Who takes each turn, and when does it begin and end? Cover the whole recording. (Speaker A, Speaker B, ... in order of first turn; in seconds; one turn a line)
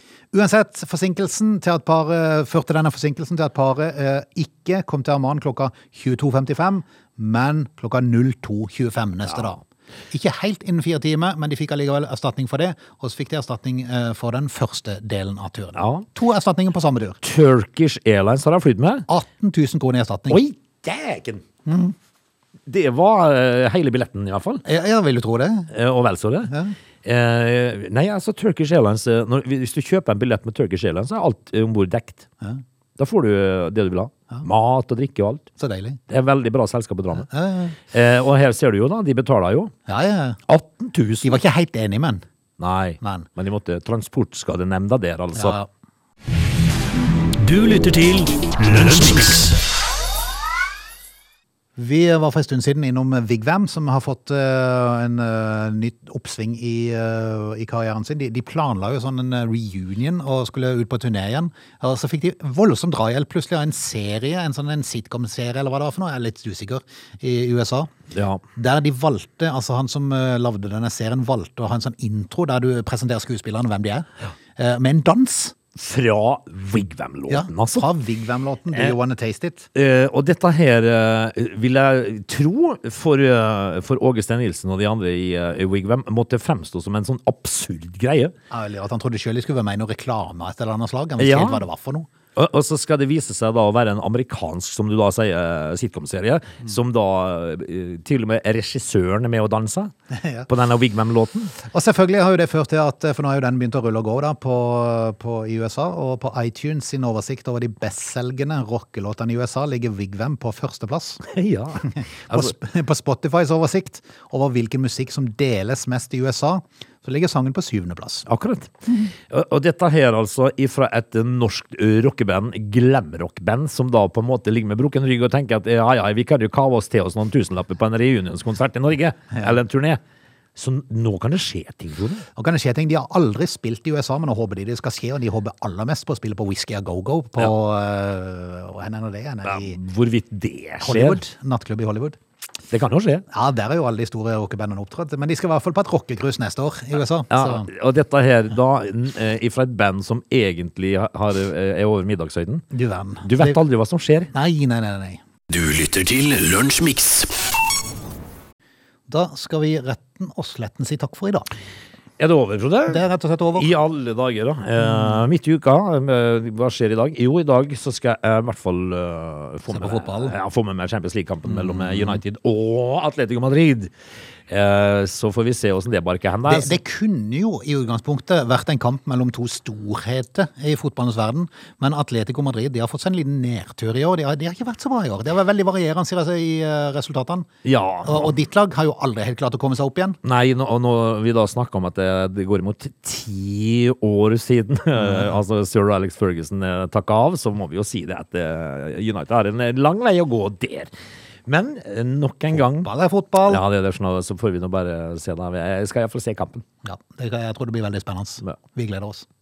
Speaker A: 0.3-17.2
Speaker B: 15.8-16.1
Speaker B: 17.2-19.1
Speaker A: 19.1-20.4
Speaker B: 20.3-21.4
Speaker A: 21.7-21.9
Speaker B: 22.7-24.6
Speaker A: 24.6-25.7
Speaker B: 25.7-26.5
Speaker A: 26.5-26.8
Speaker B: 27.0-32.3
Speaker B: 33.0-35.5
Speaker A: 35.6-36.0
Speaker B: 36.1-37.3
Speaker A: 37.3-37.8
Speaker B: 37.9-39.7
Speaker A: 39.9-40.4
Speaker B: 40.5-41.4
Speaker A: 41.2-42.3
Speaker B: 42.6-45.6
Speaker A: 43.0-43.3
Speaker A: 45.4-45.7
Speaker C: 47.4-49.6
Speaker A: 51.8-67.9
Speaker B: 68.1-68.4
Speaker A: 68.6-75.6
Speaker B: 75.8-77.9
Speaker A: 77.3-79.7
Speaker B: 78.7-79.0
Speaker B: 79.8-88.3
Speaker A: 88.5-92.1
Speaker B: 91.2-91.6
Speaker B: 92.3-99.9
Speaker A: 100.1-100.5
Speaker B: 100.5-101.5
Speaker A: 101.6-111.2
Speaker B: 111.2-112.5
Speaker A: 111.8-118.3
Speaker B: 118.3-130.0
Speaker B: 130.6-132.2
Speaker A: 132.4-139.8
Speaker B: 139.4-141.2
Speaker A: 140.8-142.2
Speaker B: 142.7-143.3
Speaker A: 143.3-147.7
Speaker B: 147.3-152.7
Speaker A: 152.7-153.6
Speaker B: 153.2-154.3
Speaker A: 154.3-155.2
Speaker C: 155.5-157.3
Speaker A: 159.1-161.5
Speaker B: 162.2-163.0
Speaker A: 162.9-163.7
Speaker B: 163.5-173.9
Speaker A: 169.7-170.3
Speaker A: 171.5-172.2
Speaker B: 174.5-176.8
Speaker A: 176.5-187.5
Speaker B: 187.6-188.3
Speaker A: 188.0-190.2
Speaker B: 190.2-200.9
Speaker B: 201.5-202.9
Speaker A: 202.5-203.6
Speaker B: 203.4-206.7
Speaker A: 206.8-209.3